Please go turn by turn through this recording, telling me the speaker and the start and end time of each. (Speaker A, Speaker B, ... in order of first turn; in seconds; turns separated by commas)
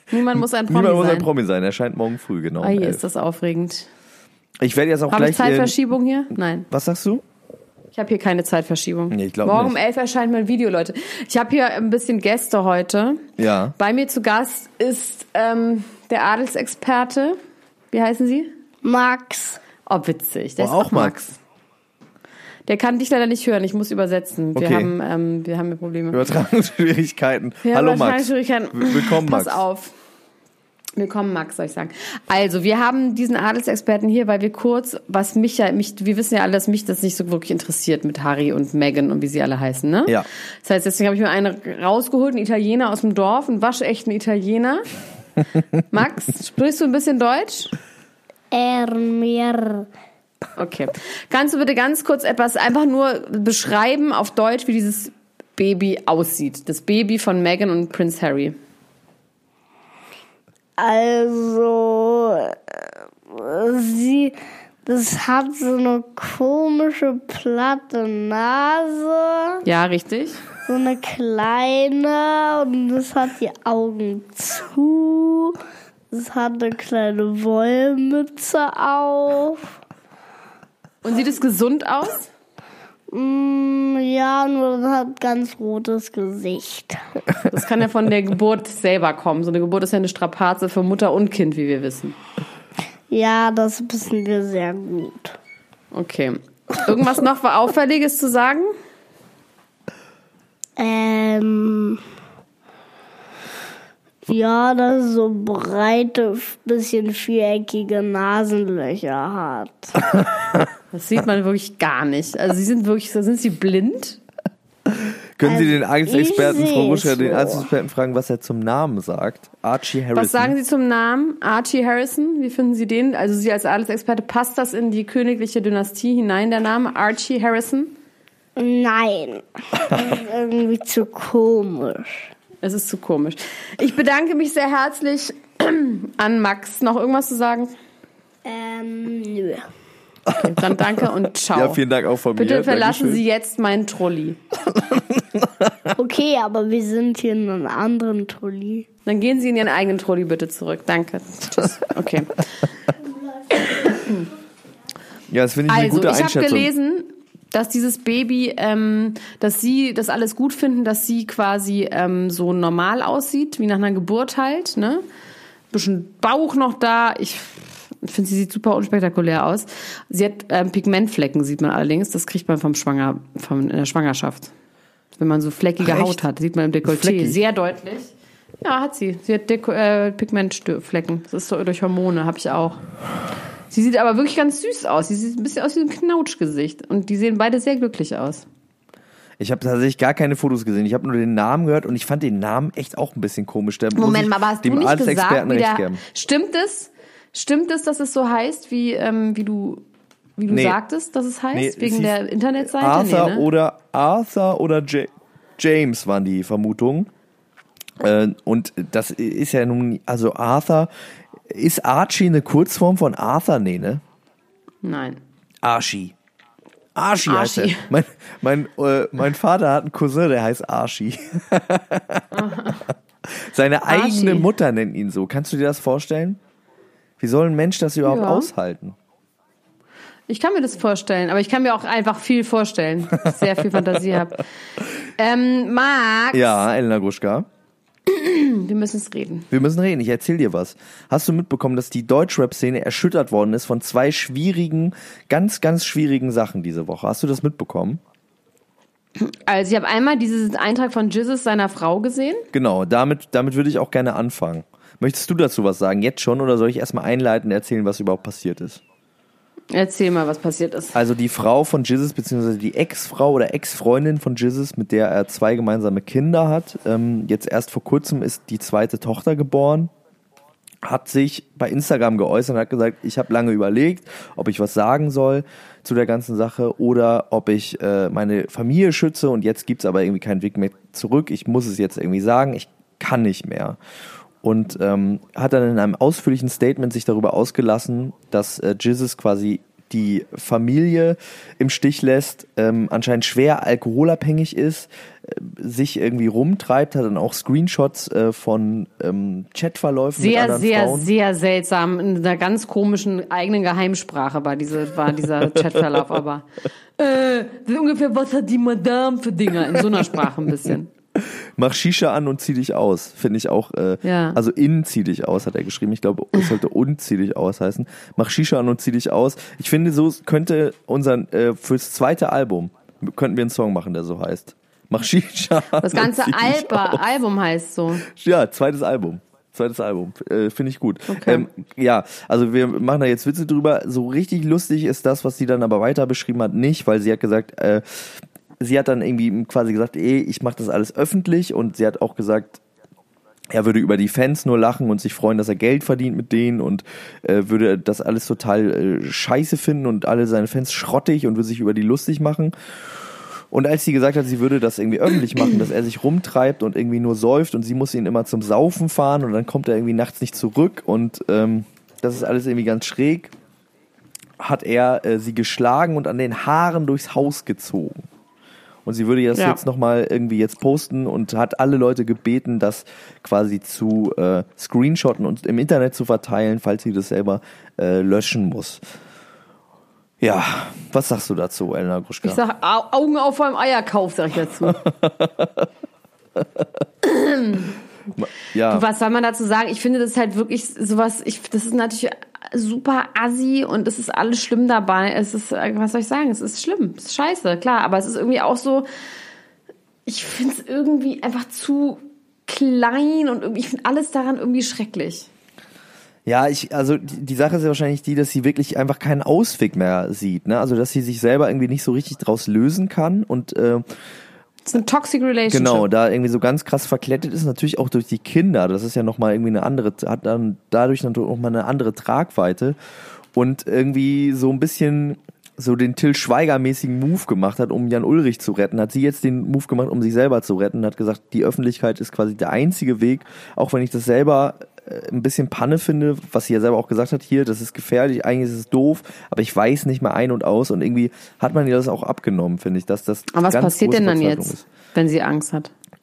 Speaker A: 0.1-1.3, Speaker B: 0.3-3.0, Speaker A: 2.6-3.9, Speaker B: 4.6-5.8, Speaker A: 5.1-6.7, Speaker B: 6.7-7.2, Speaker A: 7.9-13.2, Speaker B: 9.1-9.8, Speaker B: 13.4-13.8, Speaker A: 13.8-17.4, Speaker A: 17.9-18.5, Speaker C: 18.8-19.6, Speaker A: 19.9-21.4, Speaker B: 20.6-21.2, Speaker A: 22.7-26.2, Speaker B: 24.6-24.9, Speaker B: 26.1-29.6, Speaker A: 27.6-29.9, Speaker A: 31.0-44.9, Speaker A: 45.9-47.7, Speaker C: 48.5-49.9, Speaker A: 50.6-58.5, Speaker C: 60.8-69.6, Speaker A: 69.6-70.4, Speaker C: 70.7-75.6, Speaker C: 76.1-79.7, Speaker A: 81.0-82.3, Speaker C: 83.1-87.0, Speaker A: 87.5-92.2, Speaker C: 93.1-95.3, Speaker A: 95.9-98.7, Speaker C: 100.8-102.0, Speaker C: 104.3-110.0, Speaker B: 110.2-110.6, Speaker A: 110.9-114.2, Speaker B: 115.4-120.5, Speaker C: 115.4-117.7, Speaker A: 120.1-127.9, Speaker C: 128.6-132.2, Speaker A: 132.6-137.8, Speaker C: 138.4-139.7, Speaker B: 140.3-143.2, Speaker A: 140.4-141.8, Speaker A: 142.4-144.4, Speaker B: 144.7-145.7, Speaker C: 146.0-148.9, Speaker A: 149.1-152.5, Speaker A: 153.5-154.3, Speaker B: 155.3-156.7, Speaker A: 155.7-165.0, Speaker A: 165.7-174.5, Speaker A: 175.2-182.8, Speaker B: 175.8-176.2, Speaker B: 176.8-177.4, Speaker A: 183.7-188.5, Speaker B: 189.4-196.0, Speaker A: 193.9-199.8, Speaker A: 200.4-203.5, Speaker B: 200.5-200.8, Speaker B: 201.5-207.1, Speaker B: 208.0-210.9, Speaker B: 211.5-214.0, Speaker A: 214.8-215.2, Speaker B: 215.6-216.1, Speaker B: 216.9-222.4, Speaker A: 217.2-217.9, Speaker A: 222.3-222.8, Speaker B: 223.3-226.4, Speaker A: 223.9-224.5, Speaker B: 227.2-229.0, Speaker A: 228.1-228.5, Speaker A: 230.3-234.5, Speaker A: 235.2-236.6, Speaker B: 236.3-237.5, Speaker A: 238.1-239.5, Speaker B: 239.5-248.0, Speaker A: 249.2-252.5, Speaker B: 252.5-258.8, Speaker A: 259.7-261.0, Speaker B: 260.9-269.9, Speaker B: 270.8-283.8, Speaker B: 284.4-301.1, Speaker A: 300.2-306.5, Speaker B: 305.4-306.0, Speaker A: 307.0-310.9, Speaker B: 311.2-327.0, Speaker A: 314.0-314.4, Speaker A: 325.8-328.1, Speaker B: 328.0-342.6, Speaker A: 331.1-331.5, Speaker B: 343.5-363.3, Speaker B: 364.4-368.1, Speaker B: 368.9-378.8, Speaker A: 369.3-369.6, Speaker B: 380.2-382.4, Speaker A: 382.2-384.8, Speaker B: 384.6-385.7, Speaker A: 387.0-387.8, Speaker B: 388.2-388.9, Speaker A: 388.7-398.9, Speaker A: 400.1-405.3, Speaker B: 406.3-413.9, Speaker A: 414.7-415.9, Speaker B: 415.5-422.8, Speaker B: 423.4-444.6, Speaker A: 443.3-445.7